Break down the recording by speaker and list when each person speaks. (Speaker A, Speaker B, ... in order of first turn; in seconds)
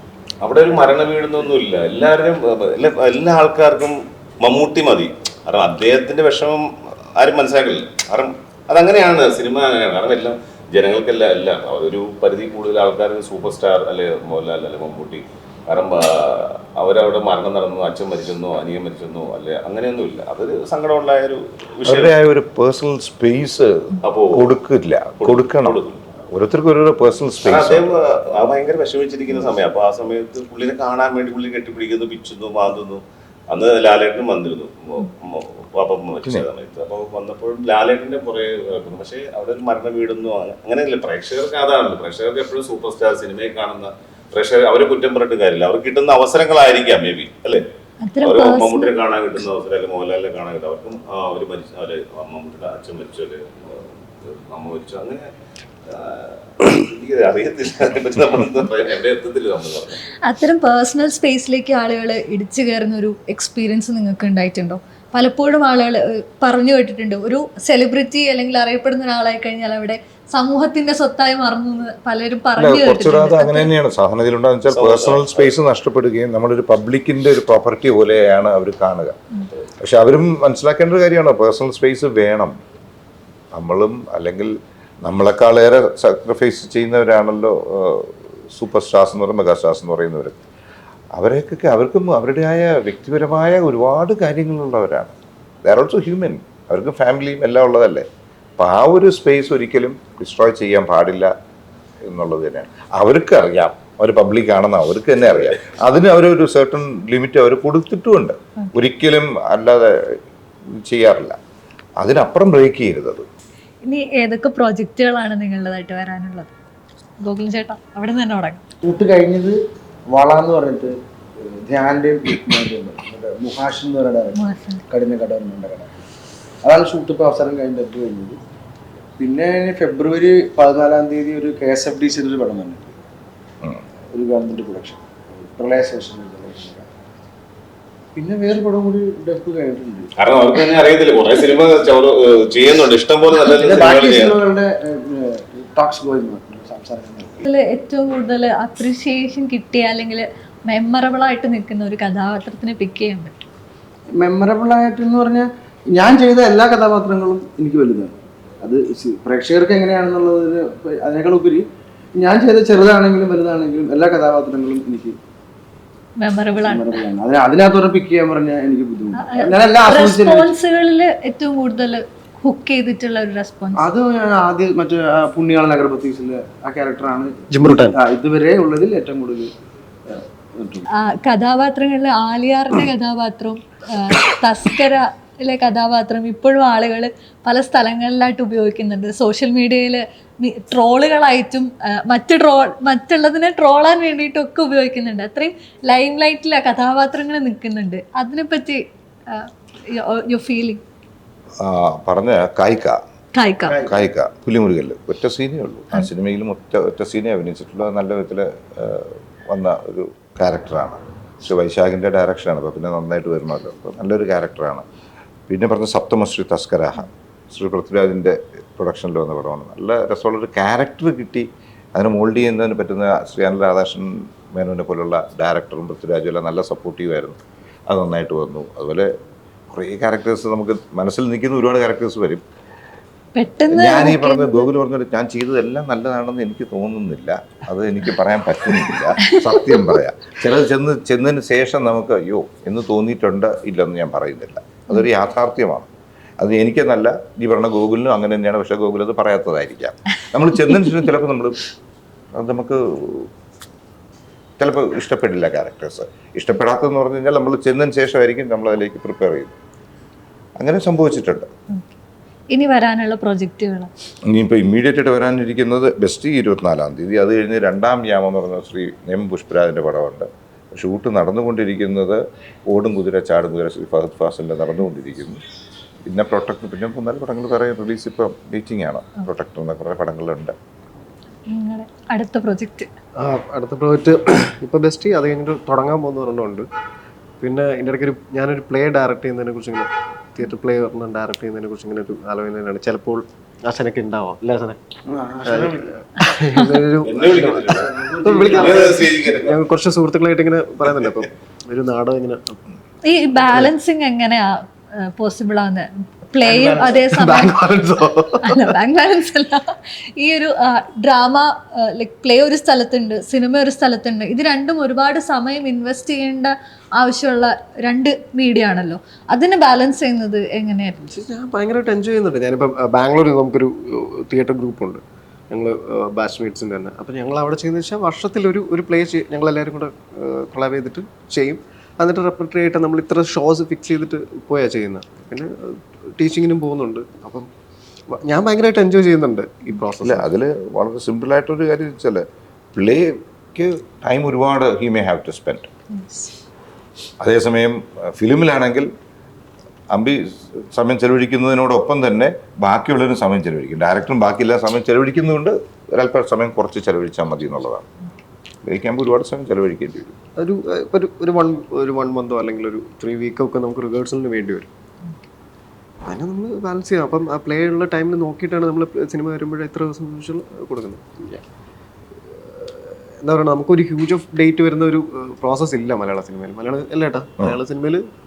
Speaker A: 0.4-22.1, 24.0-24.5, 25.2-26.1, 27.4-47.7, 48.2-55.3, 55.9-60.0, 74.7-75.5, 140.2-144.4, 297.0-299.6
Speaker B: 21.9-25.8, 26.3-28.0, 72.6-79.2, 79.8-82.6, 83.5-90.4, 91.2-98.1, 98.6-101.3, 102.0-110.2, 110.8-111.4, 112.0-113.3, 201.6-203.0, 203.8-214.8, 215.5-229.1, 229.7-232.4, 233.7-245.9, 246.4-251.6, 252.3-253.3, 254.6-259.5, 260.6-261.5, 264.3-275.4, 276.1-280.6, 340.0-345.7, 347.2-348.9, 349.9-357.9, 358.6-360.1
Speaker C: 48.0-49.0, 60.2-73.7, 113.8-116.5, 117.2-118.6, 124.4-124.8, 147.5-153.3, 166.2-167.0, 169.2-173.8, 180.9-200.8, 203.3-203.9, 233.3-234.7, 262.5-263.9, 281.5-282.9, 296.4-296.8, 303.0-307.6, 308.4-321.0, 345.9-346.3
Speaker D: 118.8-119.6, 120.1-121.0, 121.7-124.4, 124.9-125.9, 126.6-128.4, 129.2-133.0, 134.1-136.9, 138.2-140.1, 143.4-147.5, 154.2-161.7, 162.2-165.2, 166.6-170.5, 173.8-179.5, 180.1-180.9, 203.7-204.0, 295.1-295.9, 297.4-299.1
Speaker E: 177.5-178.0, 283.2-286.7, 287.4-294.8, 295.5-302.6, 303.4-303.7, 306.4-308.8, 321.0-337.5, 338.1-340.3, 360.4-364.7, 366.0-371.4, 372.3-378.1